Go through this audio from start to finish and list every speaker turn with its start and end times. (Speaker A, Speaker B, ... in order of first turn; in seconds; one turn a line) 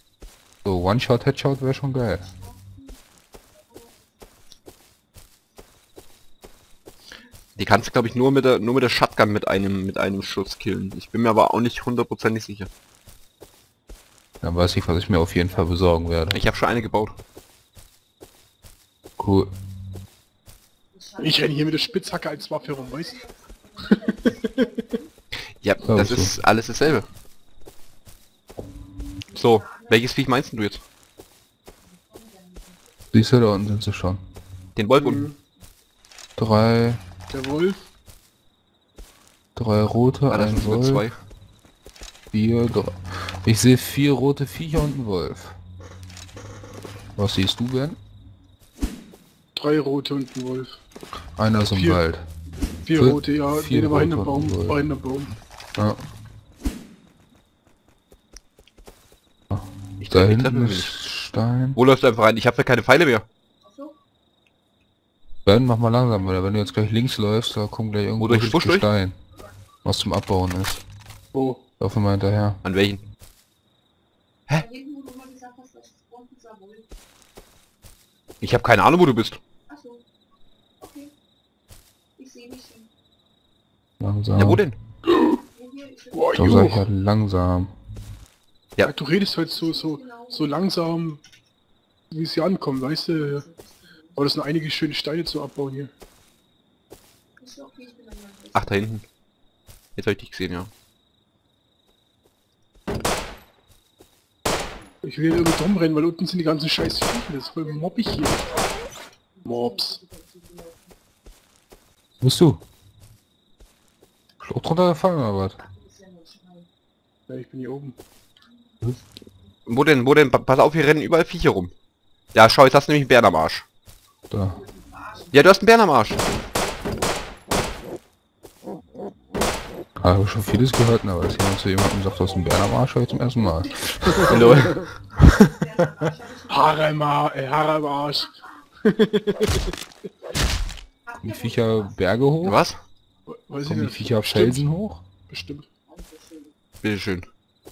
Speaker A: 0.7-2.3
Speaker B: 2.3-4.3
Speaker B: 7.2-7.7
Speaker C: 7.6-12.7
Speaker A: 14.4-16.4
Speaker C: 16.3-17.2
Speaker A: 19.2-19.5
Speaker B: 20.9-25.1
Speaker D: 21.2-23.3
Speaker D: 23.9-24.4
Speaker C: 25.6-27.1
Speaker A: 25.8-26.3
Speaker B: 29.3-30.0
Speaker C: 29.3-30.8
Speaker B: 31.8-33.1
Speaker A: 33.1-34.2
Speaker C: 34.8-35.3
Speaker D: 35.0-35.4
Speaker A: 36.4-37.0
Speaker D: 37.3-37.9
Speaker A: 39.6-41.1
Speaker C: 40.3-41.2
Speaker A: 42.3-45.6
Speaker A: 47.2-48.0
Speaker D: 49.6-50.8
Speaker A: 51.4-52.2
Speaker D: 51.6-52.0
Speaker D: 52.8-55.3
Speaker A: 52.9-54.8
Speaker A: 55.8-56.1
Speaker A: 59.5-61.8
Speaker C: 60.0-61.0
Speaker C: 61.8-63.2
Speaker B: 63.6-64.0
Speaker A: 65.5-69.2
Speaker B: 66.1-66.8
Speaker C: 68.2-68.9
Speaker A: 69.8-70.8
Speaker D: 71.3-71.6
Speaker A: 71.8-72.6
Speaker C: 72.6-73.0
Speaker B: 74.5-76.9
Speaker C: 78.4-79.4
Speaker B: 79.7-80.0
Speaker B: 80.8-81.1
Speaker B: 82.2-82.9
Speaker A: 84.0-84.7
Speaker C: 84.3-84.8
Speaker B: 85.5-86.4
Speaker D: 86.1-86.8
Speaker A: 86.4-87.7
Speaker D: 88.8-91.2
Speaker B: 89.5-90.6
Speaker D: 92.1-93.5
Speaker B: 93.2-94.1
Speaker D: 94.2-95.9
Speaker B: 97.4-98.8
Speaker C: 98.5-99.0
Speaker C: 100.0-100.7
Speaker D: 105.0-108.6
Speaker B: 109.4-111.0
Speaker D: 109.5-110.0
Speaker A: 112.2-112.6
Speaker A: 114.4-115.6
Speaker B: 115.6-116.7
Speaker D: 117.3-118.0
Speaker B: 118.5-119.0
Speaker C: 119.7-121.7
Speaker C: 122.3-123.7
Speaker A: 124.3-124.6
Speaker B: 124.5-127.0
Speaker C: 125.3-126.3
Speaker A: 130.0-135.5
Speaker C: 134.3-134.8
Speaker B: 135.4-136.8
Speaker D: 136.5-139.7
Speaker B: 141.1-142.0
Speaker A: 141.2-142.6
Speaker C: 142.4-142.8
Speaker D: 143.3-144.7
Speaker A: 143.7-145.0
Speaker D: 145.3-145.7
Speaker B: 145.9-146.6
Speaker C: 146.8-147.3